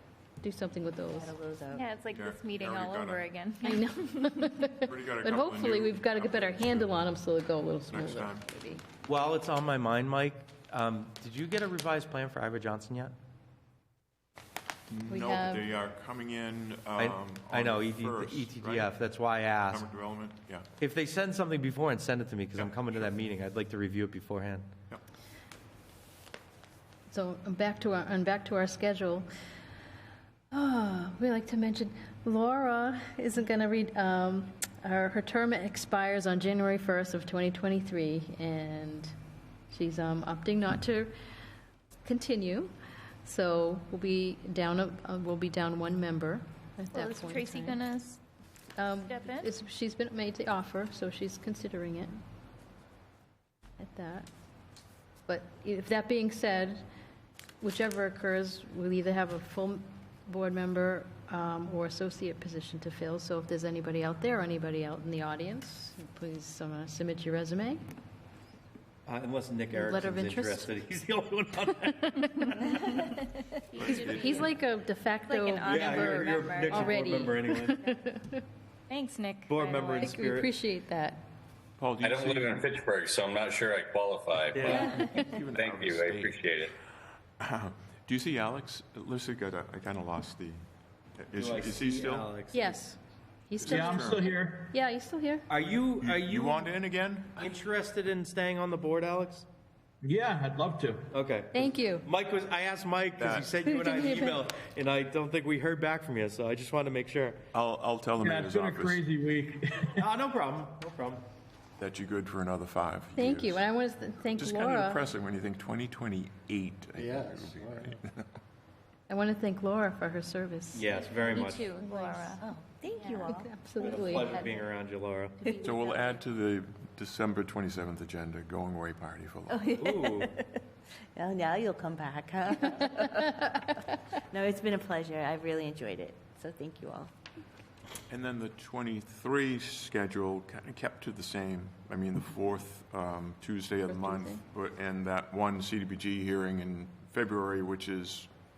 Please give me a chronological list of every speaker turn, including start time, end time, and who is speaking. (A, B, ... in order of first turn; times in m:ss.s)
0:00.4-0:01.4 A
0:01.1-0:01.9 B
0:01.7-0:03.9 C
0:02.1-0:03.3 D
0:03.6-0:08.8 A
0:04.8-0:07.1 D
0:07.9-0:08.5 D
0:09.1-0:13.2 E
0:14.9-0:18.9 D
0:15.1-0:15.7 A
0:17.0-0:19.9 E
0:19.7-0:20.7 D
0:20.8-0:24.7 E
0:22.6-0:23.2 D
0:27.1-0:29.3 A
0:30.5-0:39.1 A
0:39.7-0:41.1 A
0:42.0-0:42.7 A
0:43.2-0:47.8 A
0:46.9-0:48.2 C
0:48.8-0:52.2 A
0:49.1-0:49.5 C
0:53.8-0:54.3 A
0:55.3-0:56.8 A
0:57.6-1:07.8 A
1:09.1-1:13.0 E
1:09.7-1:10.7 A
1:13.8-1:14.4 D
1:13.8-1:18.4 A
1:13.8-1:14.2 C
1:15.3-1:17.0 C
1:15.7-1:18.0 E
1:18.9-1:20.1 C
1:19.5-1:20.5 E
1:20.0-1:21.2 A
1:21.8-1:22.7 D
1:22.0-1:24.8 F
1:24.6-1:26.4 D
1:24.6-1:24.9 E
1:25.5-1:26.7 F
1:27.4-1:30.6 D
1:31.2-1:32.3 D
1:31.3-1:32.8 E
1:32.5-1:35.5 A
1:33.6-1:34.3 D
1:33.7-1:34.7 G
1:35.5-1:36.7 E
1:36.0-1:37.5 D
1:37.4-1:39.5 E
1:40.0-1:41.1 G
1:41.1-1:47.4 E
1:41.5-1:42.1 A
1:43.2-1:43.5 D
1:43.6-1:44.4 A
1:47.5-1:49.1 D
1:48.2-1:50.1 G
1:50.0-1:51.2 E
1:51.8-1:53.6 D
1:53.2-1:55.0 A
1:54.4-1:58.3 D
1:59.1-2:01.5 A
2:00.7-2:01.7 E
2:01.2-2:02.4 C
2:01.8-2:04.2 B
2:03.0-2:03.4 C
2:03.3-2:04.4 A
2:03.8-2:05.4 E
2:05.4-2:05.8 B
2:05.4-2:06.1 C
2:05.6-2:09.7 D
2:09.5-2:10.5 B
2:09.8-2:10.4 E
2:11.2-2:13.6 B
2:14.3-2:17.1 B
2:18.1-2:28.3 D
2:23.9-2:24.4 A